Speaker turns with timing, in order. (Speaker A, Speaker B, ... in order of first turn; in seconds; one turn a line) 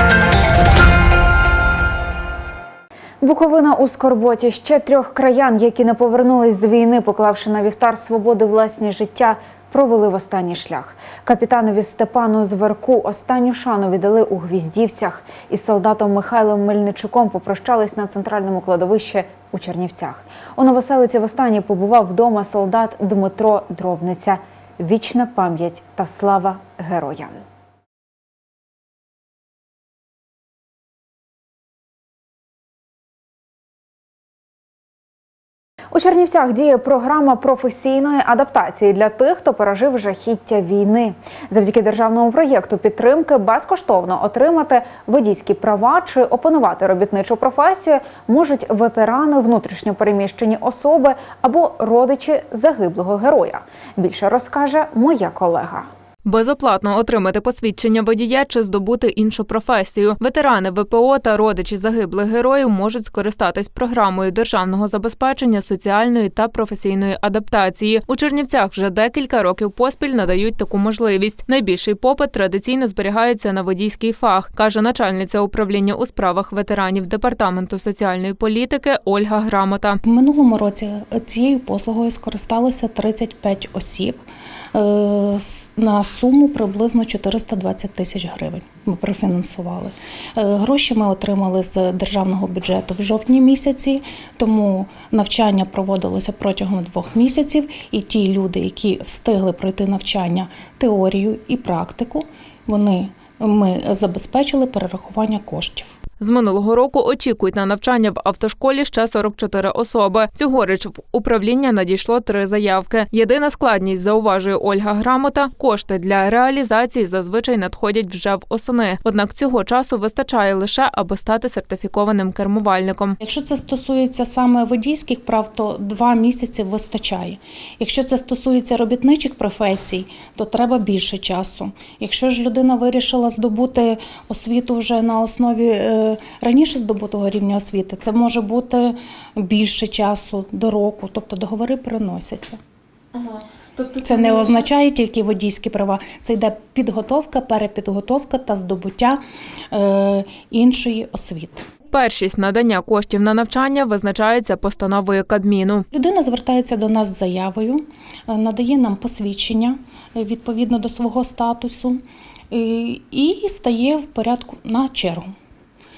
Speaker A: 3.2-27.3
Speaker A: 35.9-55.9
Speaker B: 56.2-80.0
Speaker C: 80.0-84.2
Speaker C: 84.7-105.9
Speaker B: 106.2-123.2
Speaker C: 123.2-142.6
Speaker B: 143.1-144.7
Speaker C: 144.0-149.2
Speaker C: 149.7-151.7
Speaker B: 151.9-155.8
Speaker C: 155.9-162.0
Speaker C: 162.5-165.3